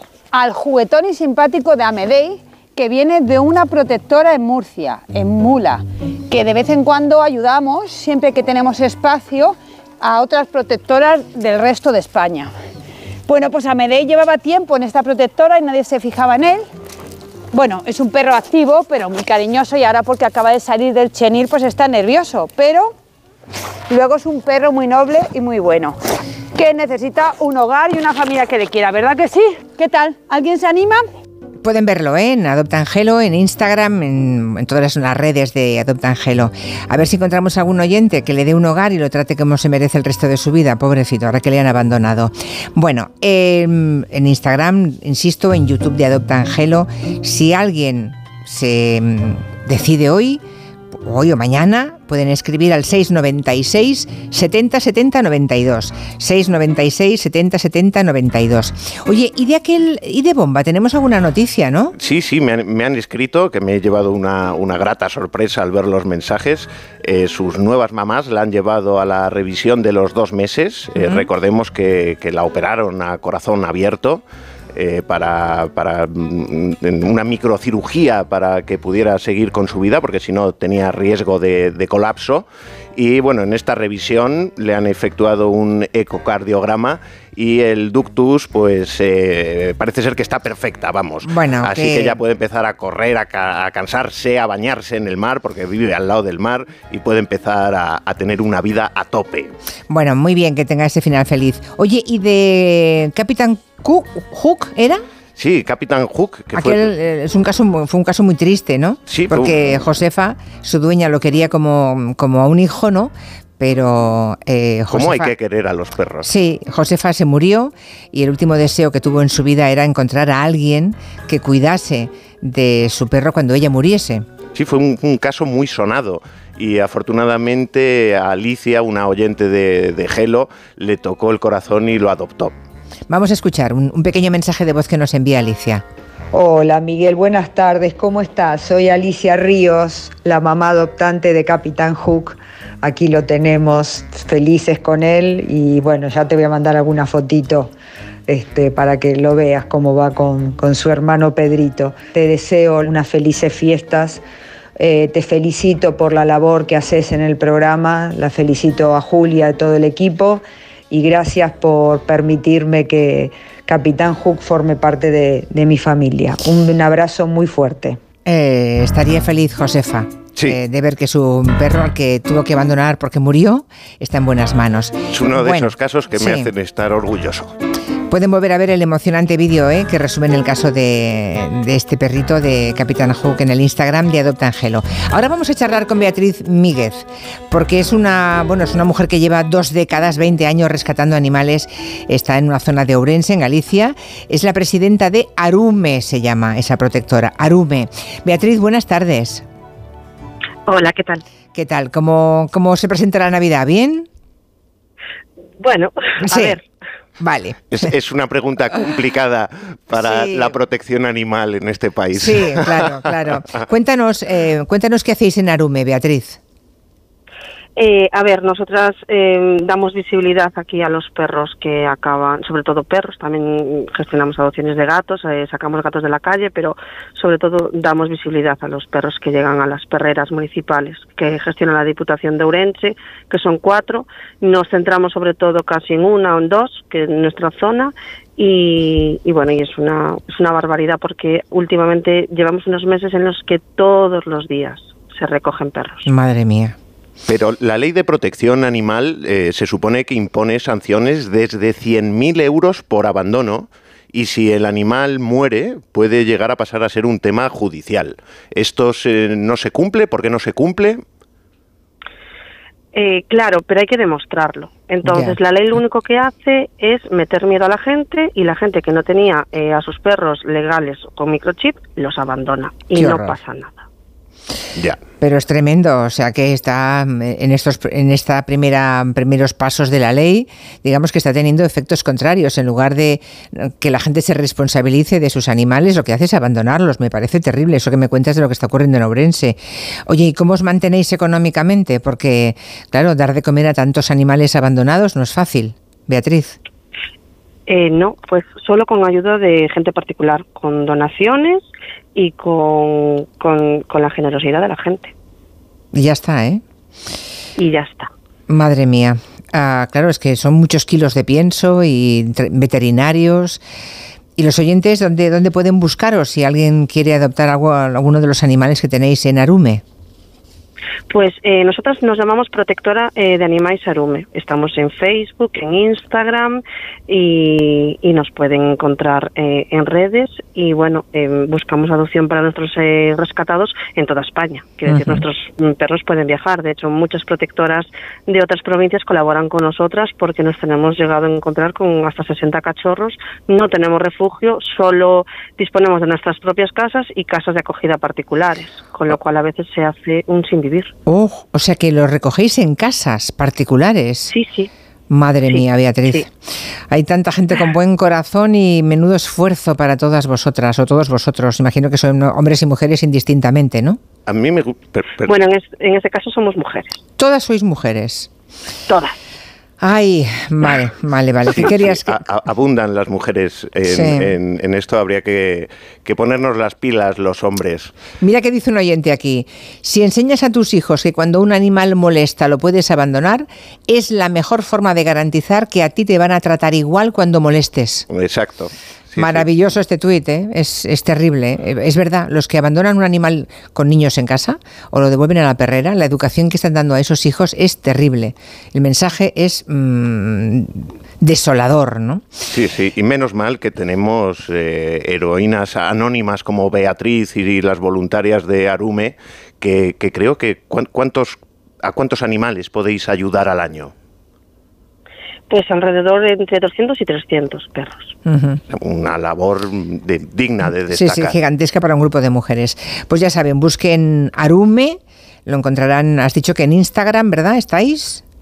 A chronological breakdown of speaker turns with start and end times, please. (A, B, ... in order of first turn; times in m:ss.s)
0:00.3-0:12.5 A
0:13.3-0:16.6 A
0:17.5-0:22.9 A
0:23.9-0:25.9 A
0:26.6-0:31.0 A
0:31.6-0:50.4 B
0:51.0-1:01.9 B
1:02.0-1:14.2 C
1:11.0-1:11.2 B
1:14.7-1:39.5 C
1:31.2-1:32.2 B
1:39.9-1:45.0 B
1:45.4-1:46.9 C
1:46.5-1:55.3 B
1:49.1-1:49.8 C
1:54.9-1:56.3 C
1:56.2-2:04.2 B
2:04.5-2:12.5 C
2:13.1-2:15.8 B
2:16.3-2:27.7 D
2:28.3-2:34.2 D
2:34.8-2:48.0 D
2:48.3-2:56.5 B
2:55.1-2:57.5 C
2:58.1-3:19.4 B
3:20.7-3:21.2 E
3:21.5-3:24.1 B
3:25.6-3:26.6 E
3:26.3-3:26.6 B
3:27.2-3:27.8 B
3:27.7-3:33.1 C
3:30.0-3:30.5 B
3:32.2-3:36.4 B
3:37.8-4:06.1 E
4:06.0-4:06.8 B
4:07.3-4:21.0 C
4:22.9-4:33.8 E
4:25.0-4:25.4 B
4:32.9-4:33.4 B
4:35.2-4:56.6 B
4:57.7-5:05.1 E
5:05.9-5:06.6 B
5:07.6-5:08.1 E
5:08.5-5:13.6 B
5:14.4-5:19.8 B
5:21.1-5:50.9 E
5:51.1-5:54.3 B
5:54.3-5:54.7 E
5:55.1-5:56.3 B
5:55.5-5:56.2 E
5:56.9-6:04.0 B
6:04.2-6:05.4 C
6:05.2-6:07.0 E
6:07.2-6:08.3 B
6:08.9-6:09.1 E
6:09.8-6:12.2 B
6:11.5-6:17.9 C
6:13.9-6:14.3 B
6:18.2-6:28.0 B
6:28.1-6:29.5 C
6:29.2-6:42.2 B
6:42.5-6:53.9 C
6:55.5-6:58.1 E
6:58.2-6:58.6 B
6:58.7-7:01.4 C
7:00.9-7:08.2 B